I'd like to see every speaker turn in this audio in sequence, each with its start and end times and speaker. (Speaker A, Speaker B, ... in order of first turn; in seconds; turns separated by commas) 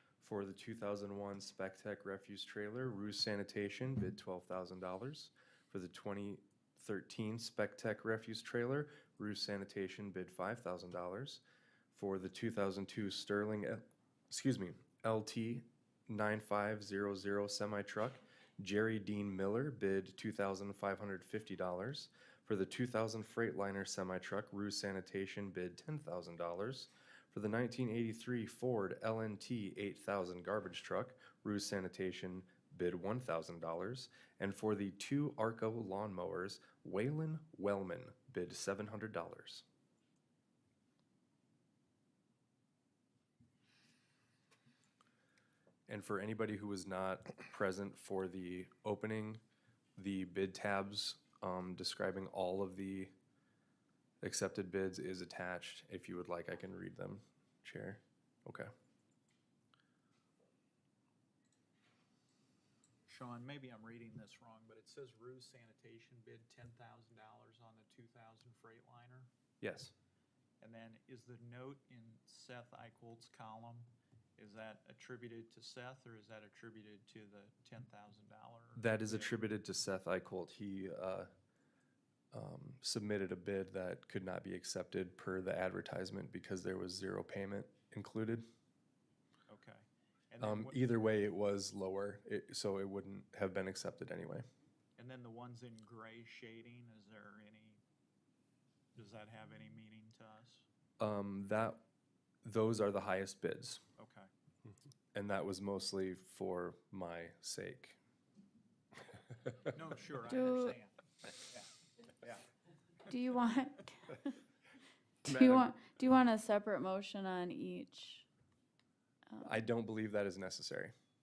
Speaker A: 0.2-11.4, Speaker A: 11.9-39.6, Speaker A: 45.9-49.4, Speaker A: 50.0-53.1, Speaker A: 54.2-58.7, Speaker B: 63.1-69.3, Speaker A: 69.6-69.9, Speaker B: 70.6-79.3, Speaker A: 78.8-81.3, Speaker A: 82.3-88.5, Speaker B: 89.5-90.8, Speaker A: 90.4-94.5, Speaker B: 95.0-97.8, Speaker B: 99.0-100.7, Speaker A: 101.0-101.8, Speaker A: 102.4-103.8, Speaker B: 104.0-104.3, Speaker A: 105.1-108.0, Speaker B: 109.6-111.7, Speaker C: 110.3-110.8, Speaker C: 113.1-114.3, Speaker C: 115.2-118.3, Speaker A: 115.3-115.7, Speaker A: 119.4-120.9